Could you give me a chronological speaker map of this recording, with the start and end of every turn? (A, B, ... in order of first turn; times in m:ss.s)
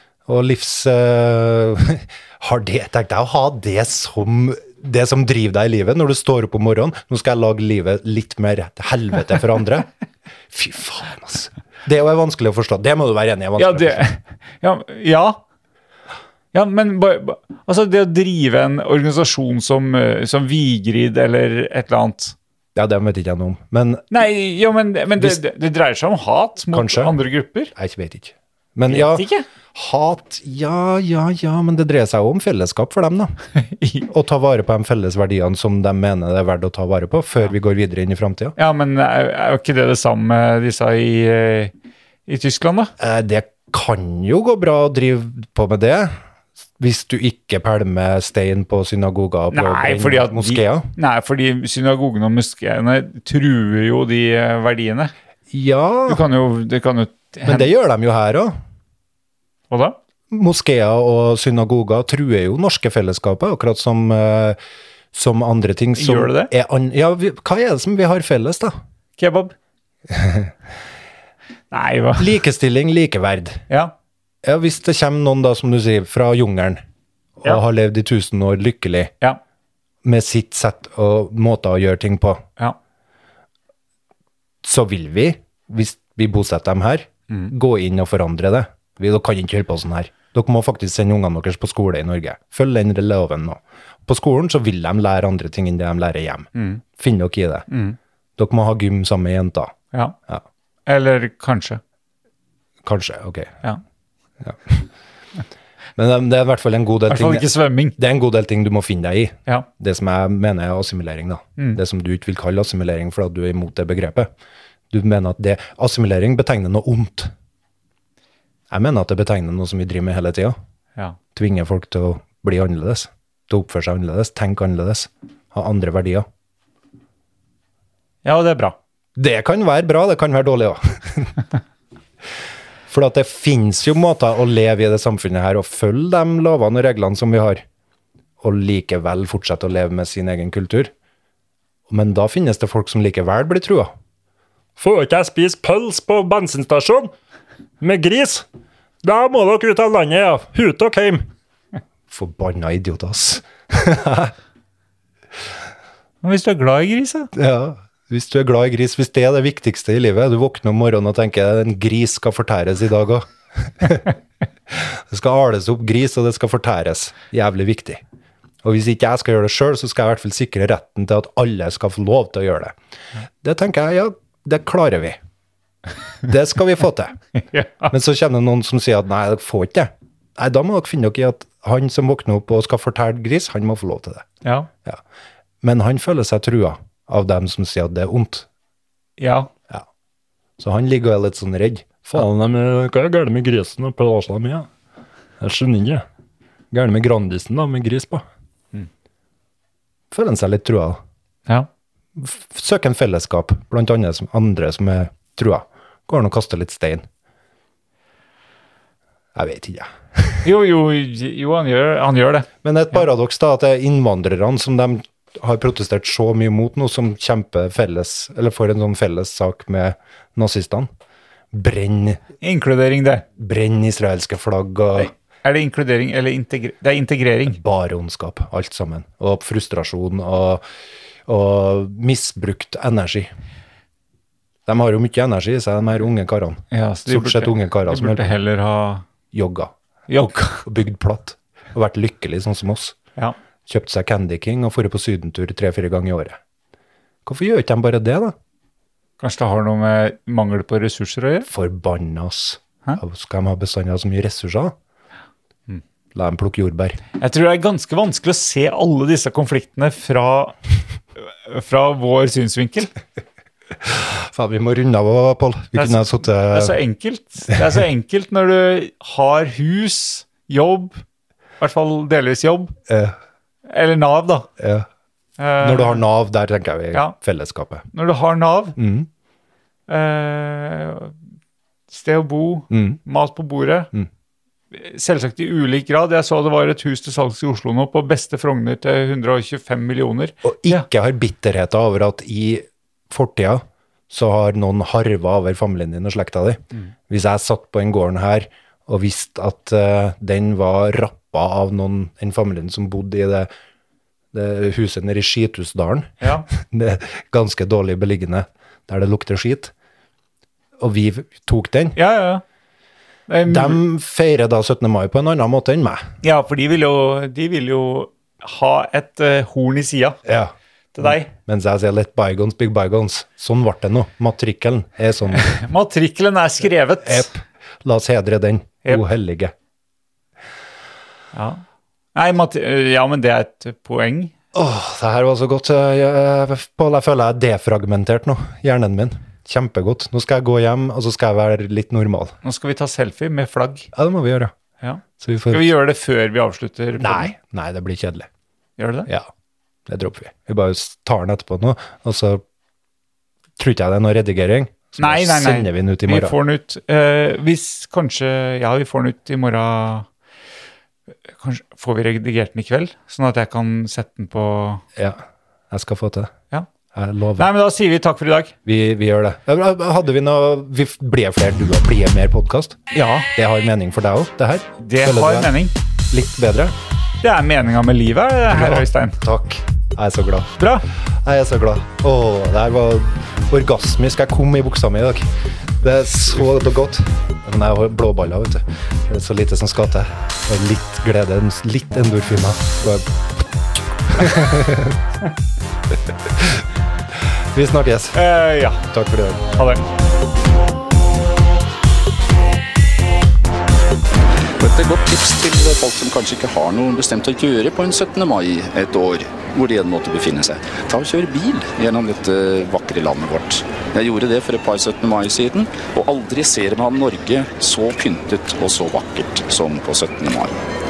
0:00.2-0:09.9 A
0:10.5-0:14.0 A
0:13.6-0:15.4 B
0:16.5-0:22.4 B
0:22.7-0:24.1 A
0:24.1-0:27.7 B
0:26.7-0:27.2 A
0:27.7-0:33.4 A
0:28.9-0:29.4 B
0:33.7-0:34.1 B
0:34.0-0:38.6 A
0:38.6-0:41.7 B
0:42.3-0:42.9 B
0:43.0-0:46.2 A
0:46.8-0:50.9 A
0:49.5-0:55.1 B
0:55.5-0:56.2 A
0:56.1-0:57.7 B
0:57.4-0:58.6 A
0:59.7-1:00.0 B
1:00.3-1:04.6 A
1:05.1-1:08.7 A
1:06.0-1:06.5 B
1:09.2-1:09.5 B
1:10.1-1:10.5 A
1:11.7-1:12.4 B
1:12.2-1:13.6 A
1:13.7-1:13.9 B
1:14.4-1:16.8 A
1:17.4-1:19.1 A
1:20.0-1:22.4 A
1:24.6-1:37.7 A
1:36.5-1:36.8 B
1:37.7-1:38.0 B
1:38.4-1:39.7 A
1:40.8-1:41.8 B
1:42.8-1:43.6 A
1:44.4-1:44.9 A
1:46.0-1:54.3 A
1:47.1-1:48.0 B
1:54.9-1:57.3 A
1:58.7-2:00.6 A
2:01.3-2:06.2 A
2:08.2-2:08.8 B
2:09.2-2:11.4 A
2:12.9-2:17.6 A
2:18.4-2:20.9 A
2:21.9-2:23.9 A
2:24.8-2:27.1 C
2:27.8-2:28.4 C
2:29.0-2:31.2 C
2:32.1-2:34.3 A
2:36.2-2:37.3 B
2:37.3-2:44.1 A
2:44.7-2:48.0 A
2:48.6-2:52.8 A
2:53.4-2:55.2 A
2:56.2-2:57.2 A
2:57.4-2:57.9 B
2:57.9-3:04.3 A
3:04.4-3:04.7 B
3:05.6-3:08.5 A
3:09.2-3:09.5 B
3:10.6-3:14.7 A
3:12.9-3:14.1 C
3:15.4-3:16.0 A
3:16.7-3:18.2 A
3:20.1-3:21.0 A
3:22.2-3:27.0 A
3:29.3-3:30.4 A
3:30.4-3:32.5 B
3:32.6-3:40.9 A
3:41.5-3:42.2 A
3:42.4-3:43.2 B
3:43.4-3:45.1 A
3:45.0-3:47.6 B
3:47.4-3:50.6 A
3:51.3-3:53.3 A
3:54.6-3:58.3 A
3:56.7-3:59.0 B
3:59.3-3:59.7 A
4:00.1-4:00.6 B
4:00.6-4:03.0 A
4:03.6-4:06.4 A
4:07.2-4:08.3 A
4:09.2-4:11.5 B
4:11.5-4:14.7 A
4:16.1-4:17.0 A
4:17.2-4:20.6 B
4:21.4-4:22.9 B
4:23.8-4:26.8 A
4:25.7-4:31.0 B
4:31.6-4:32.8 B
4:32.9-4:33.1 A
4:33.7-4:34.5 B
4:34.6-4:34.9 A
4:35.4-4:36.0 B
4:35.6-4:37.9 A
4:37.9-4:38.8 B
4:38.8-4:39.1 A
4:39.9-4:41.1 B
4:41.9-4:43.9 B
4:42.7-4:43.0 A
4:44.7-4:50.8 B
4:50.4-5:03.5 A
5:04.3-5:09.7 A
5:06.2-5:06.5 B
5:10.8-5:12.0 A
5:12.0-5:12.4 B
5:13.3-5:13.8 B
5:13.4-5:16.0 A
5:16.2-5:20.2 B
5:20.2-5:20.5 A
5:20.9-5:21.3 B
5:21.0-5:25.6 A
5:25.3-5:27.3 B
5:27.0-5:29.5 A
5:31.3-5:31.6 B
5:32.1-5:34.3 B
5:34.5-5:42.4 A
5:42.4-5:43.9 B
5:43.9-5:44.5 A
5:44.8-5:47.3 B
5:45.2-5:45.7 A
5:47.0-5:48.3 A
5:48.8-5:49.1 B
5:49.9-5:52.4 A
5:53.6-5:56.3 A
5:55.0-6:00.1 B
6:01.3-6:04.8 B
6:05.0-6:06.3 A
6:06.9-6:07.5 A
6:07.4-6:08.5 B
6:08.6-6:12.8 A
6:12.9-6:13.3 B
6:13.4-6:15.5 A
6:14.8-6:15.7 B
6:16.1-6:16.7 A
6:17.2-6:19.2 B
6:18.5-6:20.6 A
6:20.6-6:20.9 B
6:21.2-6:25.2 A
6:25.8-6:33.4 A
6:34.0-6:35.0 A
6:36.3-6:36.6 A
6:37.5-6:38.3 A
6:38.1-6:38.8 B
6:38.8-6:39.5 A
6:39.6-6:39.8 B
6:44.6-7:00.5 D